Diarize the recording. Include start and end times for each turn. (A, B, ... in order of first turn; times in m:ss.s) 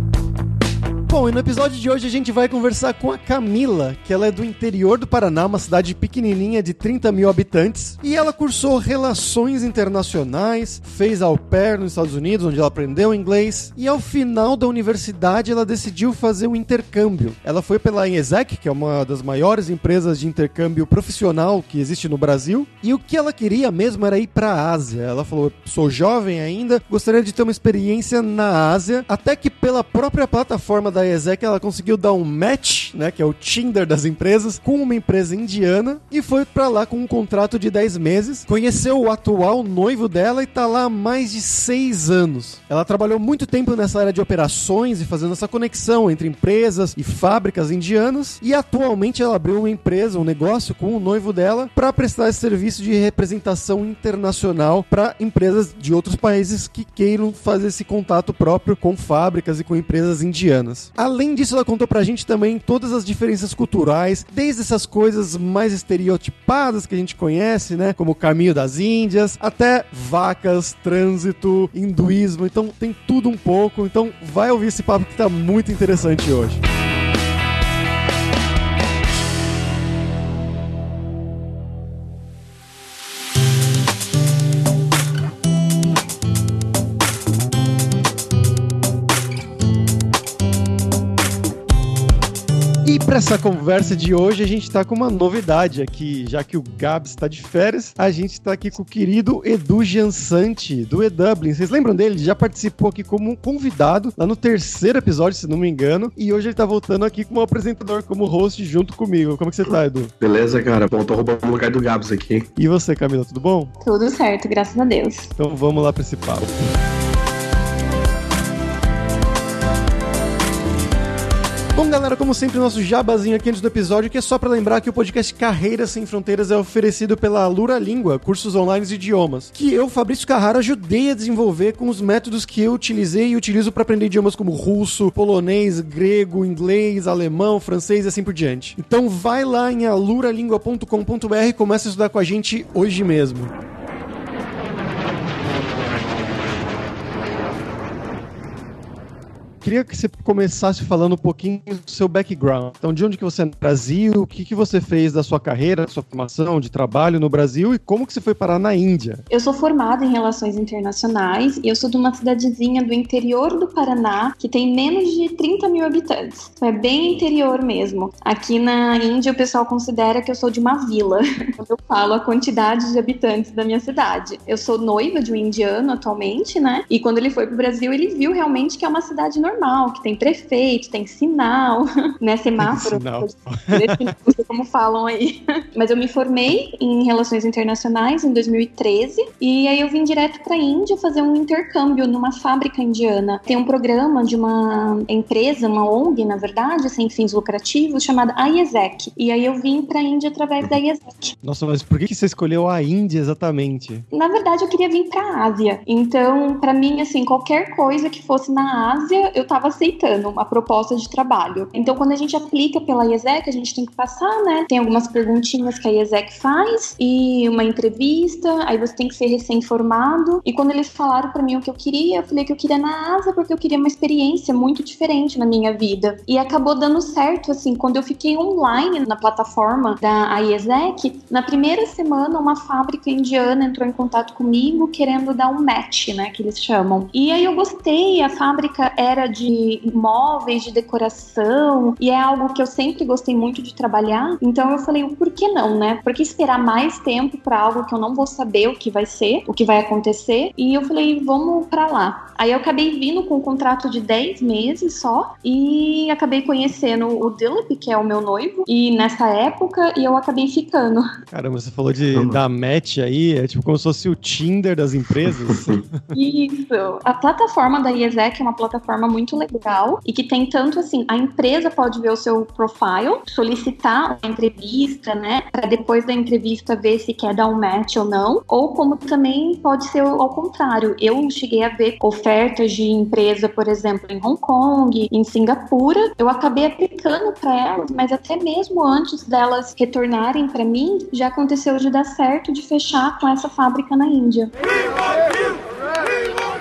0:01.1-1:16.6 A
1:32.8-1:50.1 A
1:50.2-1:52.5 B
1:52.6-1:53.7 A
1:53.8-1:55.3 C
1:55.4-1:56.7 A
2:01.7-2:23.5 A
2:29.6-2:39.2 A
2:39.3-3:21.3 C
3:02.6-3:04.1 A
3:21.4-3:24.0 A
3:24.1-4:21.1 C
4:21.3-4:26.1 A
4:22.1-4:22.4 B
4:25.3-4:25.8 B
4:26.1-4:54.5 C